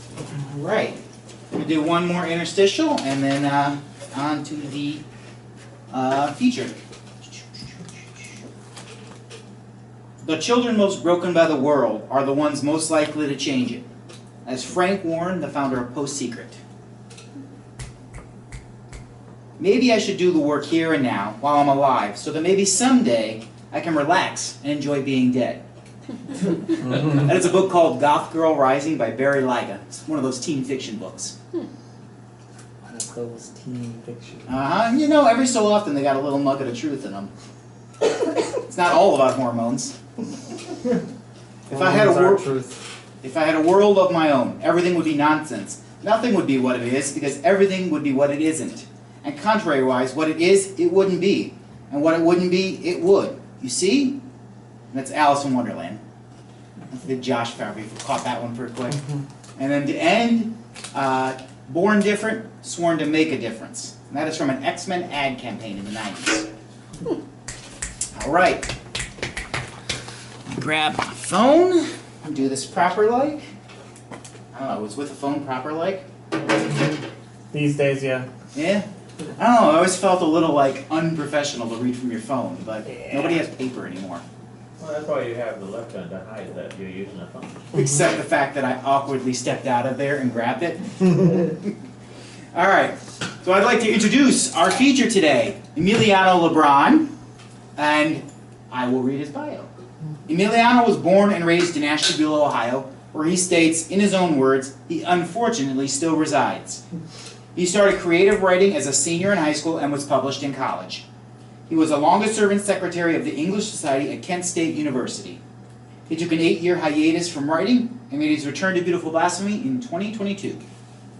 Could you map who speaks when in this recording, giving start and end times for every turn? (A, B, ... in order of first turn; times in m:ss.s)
0:00.3-0:01.0 A
0:01.5-0:05.0 A
0:05.9-0:08.4 A
0:10.2-0:13.8 A
0:14.4-0:16.6 A
0:19.6-0:25.6 A
0:26.5-0:31.4 A
0:32.8-0:34.5 B
0:34.5-0:37.3 A
0:38.5-0:40.0 A
0:41.7-0:42.5 A
0:41.7-0:42.8 B
0:43.2-0:54.2 A
0:54.9-0:56.0 A
0:56.9-1:06.5 A
1:08.2-1:08.7 A
1:10.5-1:13.4 A
1:14.5-1:16.0 A
1:17.5-1:18.3 B
1:18.5-1:24.2 A
1:24.8-1:27.6 C
1:27.7-1:31.7 A
1:32.5-1:37.1 A
1:37.8-1:39.7 A
1:40.3-1:46.8 A
1:47.6-1:51.0 A
1:51.7-1:55.4 A
1:56.1-2:00.6 A